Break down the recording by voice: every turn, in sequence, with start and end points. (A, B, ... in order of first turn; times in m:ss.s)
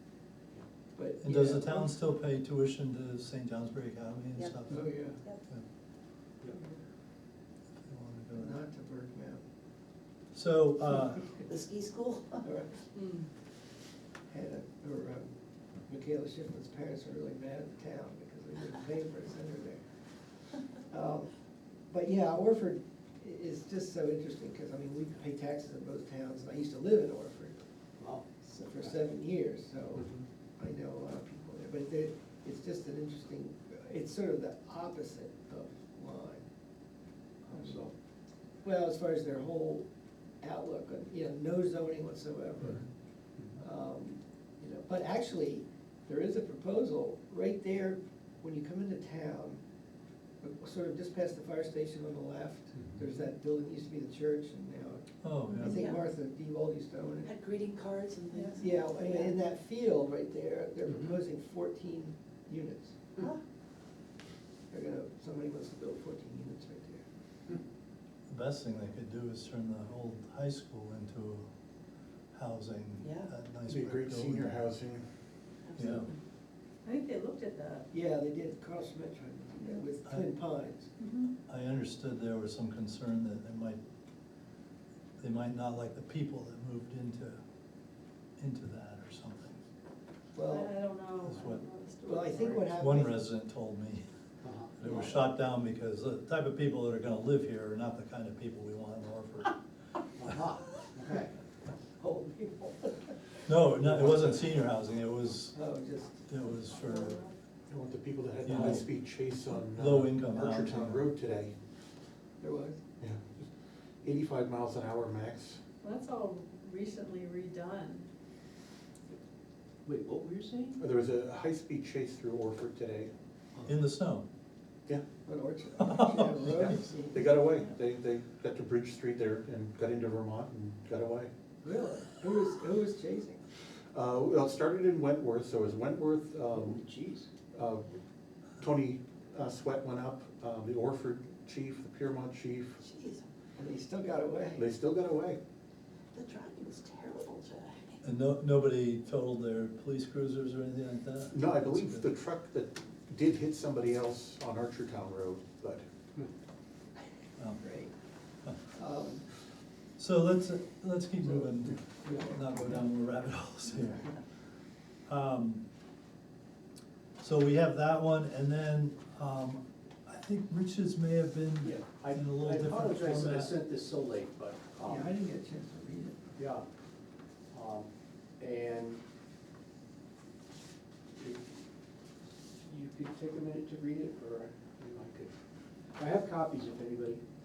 0:01.0-0:02.0 A
0:01.2-0:04.9 B
0:04.7-0:05.2 A
0:07.9-0:08.6 B
0:08.3-0:09.4 A
0:10.3-0:11.3 B
0:11.4-0:12.4 C
0:12.4-0:12.7 A
0:14.3-0:15.3 A
0:15.9-0:19.8 A
0:20.7-0:21.3 A
0:21.9-0:27.6 A
0:28.0-0:28.2 D
0:28.4-0:36.5 A
0:37.5-0:37.9 D
0:37.5-0:37.9 A
0:38.6-0:39.8 A
0:40.4-0:42.8 A
0:43.6-0:49.6 A
0:50.4-0:57.3 A
0:55.2-0:55.8 B
0:55.6-0:56.0 C
0:57.2-0:59.4 C
0:58.3-0:58.6 E
0:58.6-1:03.0 A
1:04.7-1:07.0 A
1:08.3-1:11.4 B
1:12.3-1:14.6 B
1:13.0-1:13.3 C
1:13.7-1:15.0 F
1:15.6-1:16.1 C
1:15.8-1:16.1 B
1:16.8-1:17.9 E
1:17.9-1:20.9 A
1:21.0-1:21.3 E
1:21.5-1:23.8 B
1:25.2-1:27.4 B
1:28.4-1:29.6 B
1:30.3-1:30.7 A
1:30.4-1:32.7 E
1:31.2-1:31.6 B
1:32.0-1:33.2 A
1:32.7-1:34.0 B
1:34.4-1:34.7 D
1:34.8-1:39.6 B
1:40.2-1:41.3 D
1:41.0-1:41.3 A
1:42.0-1:43.1 A
1:43.4-1:45.6 B
1:43.8-1:44.5 F
1:45.5-1:46.2 A
1:46.3-1:47.2 B
1:46.7-1:47.3 E
1:47.7-1:51.5 F
1:48.4-1:48.9 B
1:49.6-1:51.1 B
1:52.4-1:52.8 A
1:53.0-1:53.5 F
1:54.0-1:55.6 F
1:55.8-1:58.1 E
1:59.8-2:00.8 D
2:00.8-2:03.1 F
2:03.6-2:04.2 B
2:05.2-2:07.2 A
2:05.9-2:06.1 B
2:07.1-2:11.3 F
2:11.6-2:13.4 A
2:13.9-2:16.8 F
2:16.5-2:17.2 D
2:17.5-2:18.0 F
2:18.6-2:22.8 F
2:22.8-2:23.2 C
2:23.6-2:24.6 A
2:24.5-2:25.4 F
2:26.1-2:28.0 C
2:28.0-2:32.0 B
2:31.3-2:35.8 F
2:37.4-2:37.6 B
2:37.6-2:37.9 A
2:38.7-2:39.2 A
2:40.0-2:44.1 B
2:42.0-2:42.8 A
2:45.1-2:45.6 B
2:47.2-2:53.6 B
2:51.6-2:55.1 D
2:54.8-2:56.3 A
2:56.4-2:56.6 D
2:57.5-2:59.0 D
3:01.2-3:01.5 D
3:02.6-3:05.3 D
3:06.0-3:07.2 D